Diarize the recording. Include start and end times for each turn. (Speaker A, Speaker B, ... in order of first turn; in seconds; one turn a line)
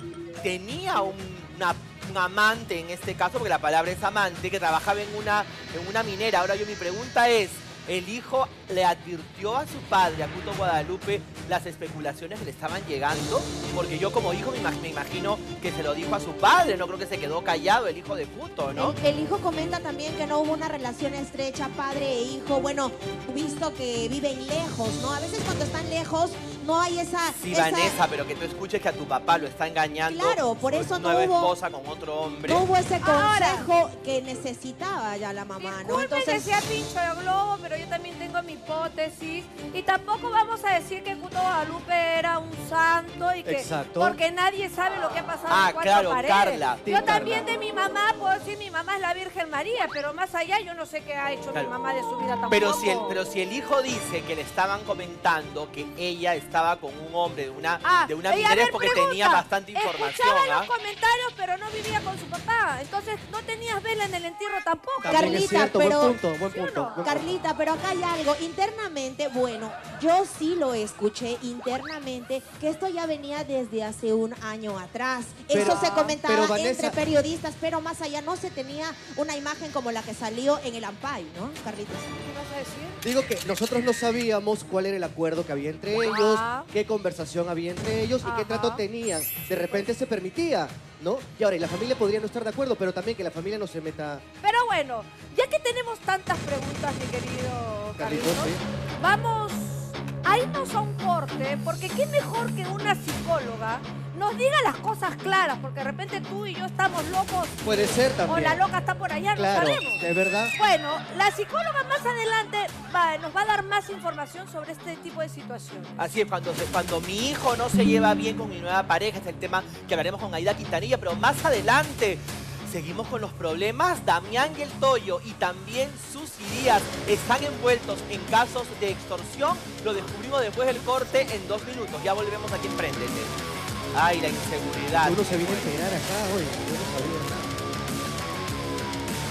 Speaker A: 0.4-18.9
Speaker B: 18.7-28.0
Speaker A: 27.4-32.7
Speaker B: 30.1-31.5
Speaker B: 32.4-36.5
Speaker C: 33.0-33.7
Speaker C: 35.6-53.2
Speaker D: 43.4-44.2
Speaker A: 45.5-47.4
Speaker D: 47.0-47.4
Speaker A: 52.5-60.7
Speaker C: 57.8-65.5
Speaker D: 65.0-67.3
Speaker B: 65.1-66.2
Speaker C: 66.5-67.1
Speaker B: 67.0-82.1
Speaker D: 75.5-77.0
Speaker C: 75.5-76.2
Speaker C: 82.2-83.0
Speaker D: 83.0-94.2
Speaker C: 86.0-86.7
Speaker C: 88.2-88.8
Speaker C: 94.4-116.1
Speaker D: 98.0-98.6
Speaker D: 107.6-108.6
Speaker D: 109.3-110.5
Speaker A: 116.0-133.3
Speaker A: 133.9-135.8
Speaker D: 135.0-137.5